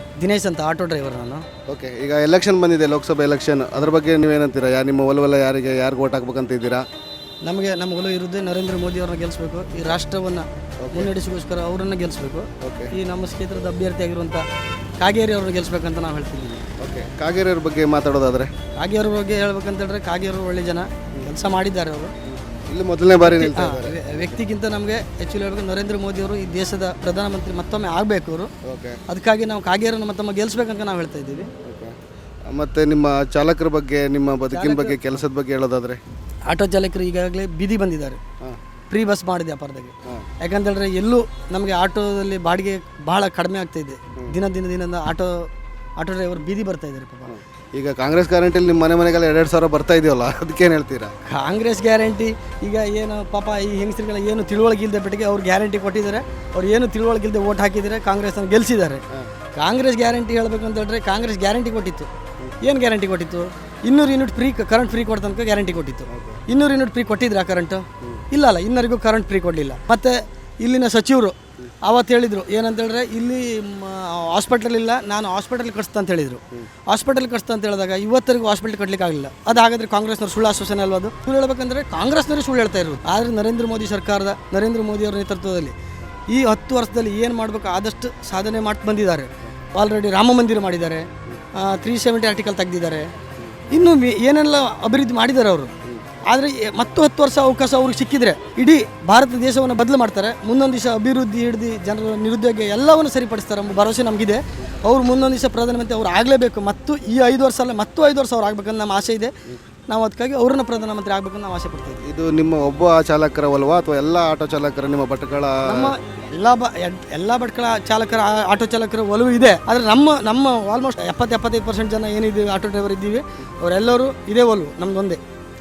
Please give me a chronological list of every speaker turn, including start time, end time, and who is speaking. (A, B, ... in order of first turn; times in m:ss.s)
0:00.2-0:01.4 A
0:01.7-0:06.8 B
0:07.4-0:14.4 A
0:10.8-0:11.1 B
0:12.6-0:12.9 B
0:15.0-0:16.7 A
0:16.8-0:18.5 B
0:18.8-0:22.1 A
0:22.3-0:24.4 B
0:23.2-0:28.5 A
0:28.6-0:29.0 B
0:29.1-0:31.5 A
0:31.6-0:31.9 B
0:32.5-0:36.0 B
0:34.5-0:35.2 A
0:36.5-0:38.2 A
0:38.9-0:45.5 A
0:46.0-0:47.3 A
0:47.3-0:51.1 B
0:51.3-0:59.0 A
0:59.6-1:02.1 A
1:02.6-1:25.8 A
1:06.1-1:06.4 B
1:26.3-1:33.1 A
1:33.7-1:35.7 A
1:36.2-1:49.3 A
1:49.9-1:52.0 A
1:52.0-1:55.9 B
1:55.6-2:05.2 A